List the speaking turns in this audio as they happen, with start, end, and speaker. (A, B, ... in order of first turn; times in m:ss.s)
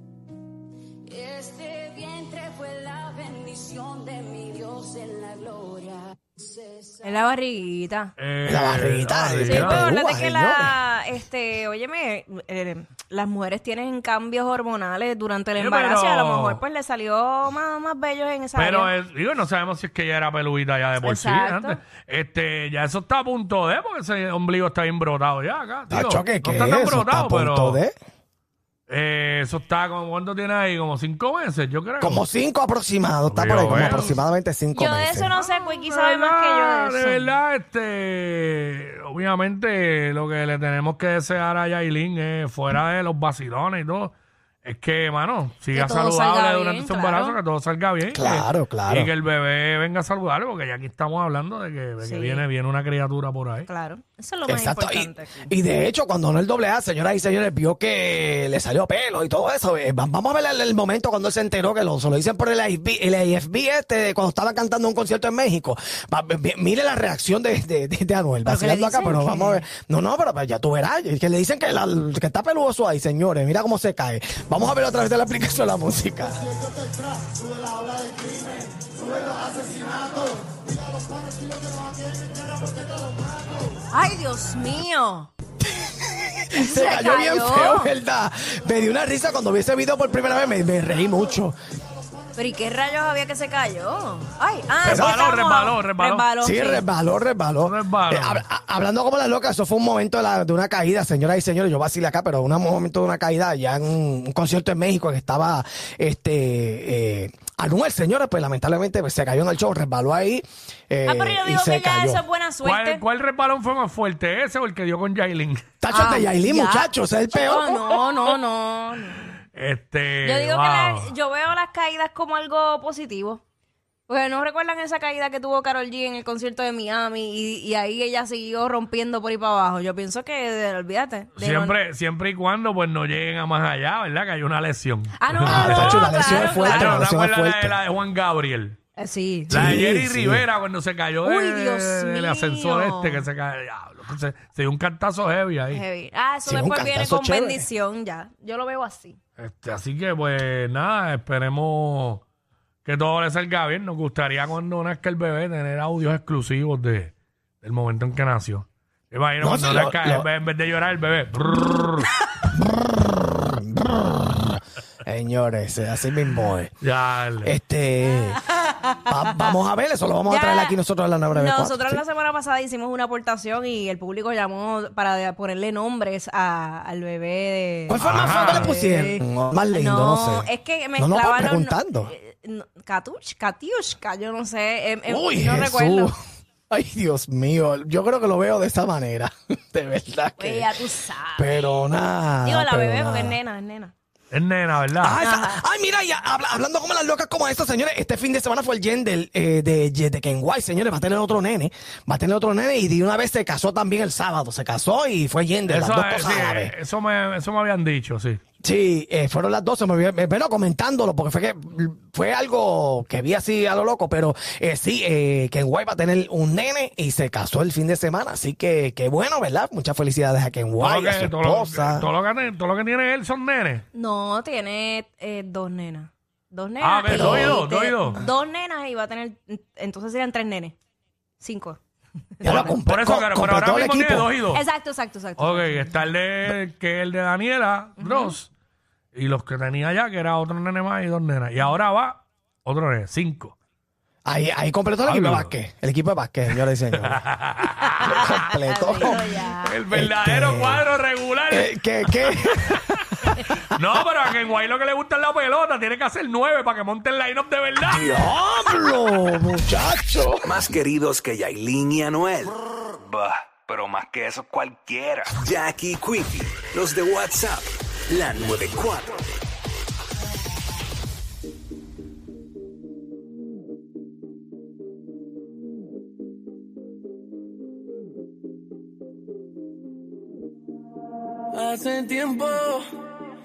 0:01.1-0:06.2 A
0:07.0-0:08.1 B
0:08.2-0:09.9 C
0:08.5-0:10.8 D
0:09.4-0:18.9 B
0:15.6-0:16.6 C
0:18.6-0:27.8 C
0:21.0-0:21.8 B
0:25.9-0:28.0 D
0:28.9-0:32.2 C
0:32.0-0:35.3 D
0:33.3-0:34.1 C
0:33.7-0:34.2 B
0:34.7-0:37.3 B
0:35.4-0:44.1 C
0:44.6-0:53.7 C
0:45.7-0:47.4 B
0:48.1-0:49.1 D
0:52.0-0:52.4 B
0:53.7-0:55.5 B
0:54.5-1:16.5 D
1:08.4-1:09.6 B
1:23.9-1:25.3 B
1:25.8-1:31.6 D
1:26.5-1:27.9 B
1:32.4-1:36.9 B
1:34.8-1:36.3 C
1:34.8-1:35.2 D
1:36.4-1:52.2 D
1:37.6-1:38.4 C
1:51.1-1:53.0 B
1:52.6-1:55.6 C
1:55.8-1:57.8 D
1:55.9-1:59.4 B
1:59.6-2:01.1 C
2:00.2-2:03.4 B
2:04.1-2:11.8 B
2:11.4-2:18.8 C
2:15.2-2:17.0 B
2:15.5-2:17.8 D
2:19.0-2:19.7 B
2:19.5-2:20.5 D
2:19.5-2:25.8 C
2:21.2-2:23.3 B
2:25.7-2:29.2 B
2:26.4-2:27.7 D
2:29.4-2:32.2 C
2:32.8-2:42.1 C
2:39.4-2:40.3 D
2:42.5-2:46.8 D
2:46.8-2:47.5 C
2:47.4-2:48.4 D
2:48.1-2:49.5 B
2:49.1-2:52.0 D
2:50.3-2:50.8 B
2:51.3-3:06.1 B
2:57.9-3:02.1 D
2:58.0-2:58.8 C
3:05.1-3:06.1 D
3:06.7-3:10.7 D
3:10.4-3:11.6 B
3:11.4-3:13.4 D
3:12.4-3:13.9 B
3:14.3-3:15.2 C
3:15.0-3:26.7 D
3:15.2-3:15.6 B
3:25.7-3:28.4 C
3:28.6-3:42.1 D
3:40.8-3:43.8 C
3:43.9-3:50.8 B
3:46.8-3:48.2 C
3:47.1-3:47.6 D
3:51.4-3:51.8 B
3:52.4-3:52.8 B
3:52.4-3:54.3 D
3:52.4-3:54.6 C
3:54.5-3:55.9 B
3:55.4-3:58.5 C
3:58.0-3:58.4 B
3:59.1-4:03.5 C
4:04.3-4:07.3 D
4:05.1-4:05.5 C
4:07.0-4:08.2 C
4:08.0-4:09.3 D
4:08.2-4:09.8 B
4:09.6-4:18.2 C
4:09.9-4:10.8 D
4:11.5-4:13.6 D
4:17.8-4:20.5 D
4:20.1-4:29.3 E
4:41.5-4:42.8 A